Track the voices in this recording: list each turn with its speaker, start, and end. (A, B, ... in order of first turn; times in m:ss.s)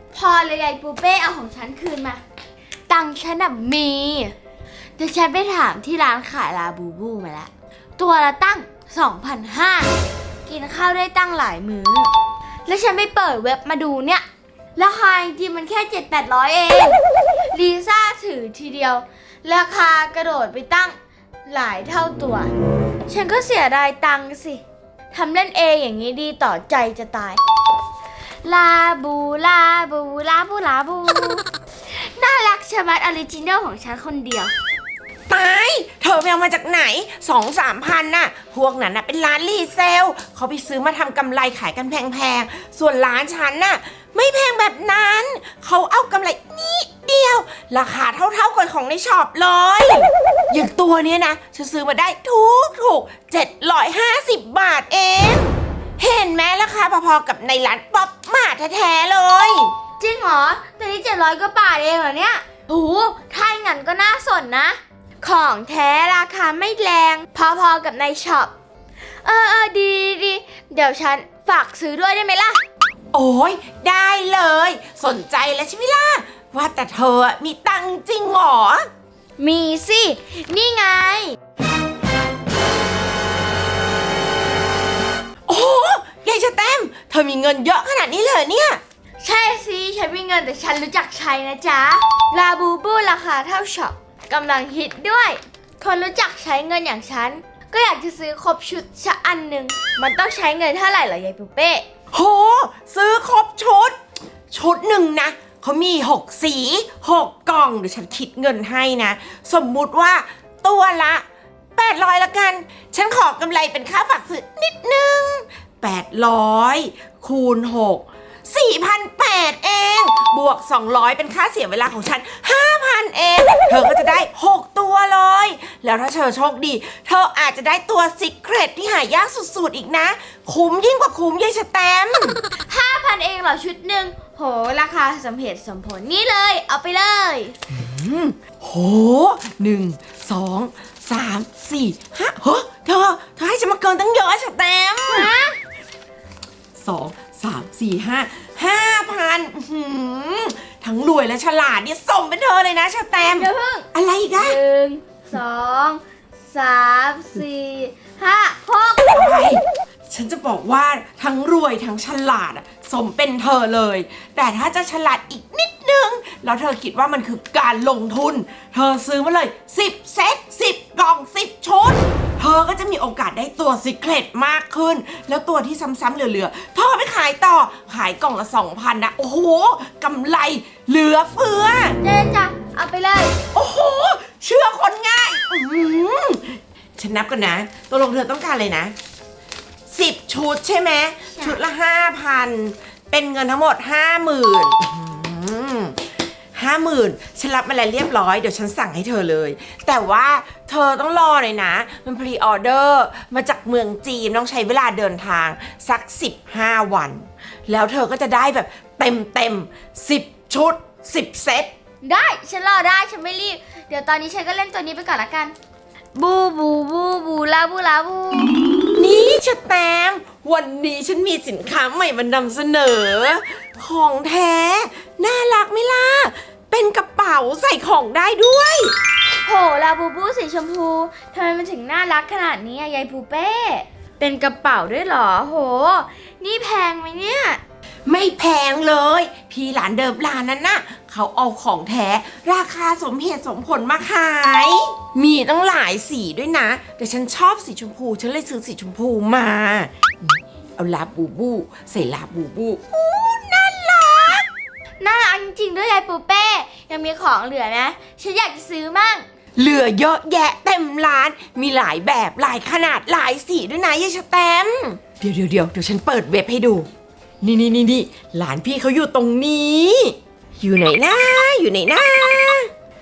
0:00.1-0:02.2 A
0:02.9-0:04.4 A
0:05.0-0:09.9 A
0:10.4-0:12.1 A
0:12.7-0:14.2 A
0:14.8-0:17.0 A
0:17.5-0:22.5 A
0:23.1-0:27.4 A
0:28.4-0:34.5 A
0:35.3-0:59.7 B
1:00.0-1:08.6 A
1:09.2-1:12.6 A
1:13.1-1:18.9 B
1:19.4-1:21.4 A
1:25.5-1:28.8 B
1:29.2-1:41.8 A
1:42.1-1:44.0 B
1:44.5-1:51.2 B
1:51.8-2:12.4 B
2:12.7-2:17.6 A
2:17.7-2:25.3 B
2:25.1-2:25.6 A
2:26.8-2:34.6 B
2:33.2-2:33.9 A
2:34.4-2:39.1 A
2:39.1-3:02.0 B
3:02.0-3:03.4 A
3:03.5-3:09.0 B
3:09.9-3:16.0 B
3:16.6-3:31.7 B
3:32.0-3:35.6 A
3:36.2-3:38.6 A
3:39.0-3:48.9 B
3:49.4-3:57.6 A
3:58.1-4:14.5 B
4:15.0-4:19.3 A
4:19.6-4:26.9 B
4:27.4-4:32.7 B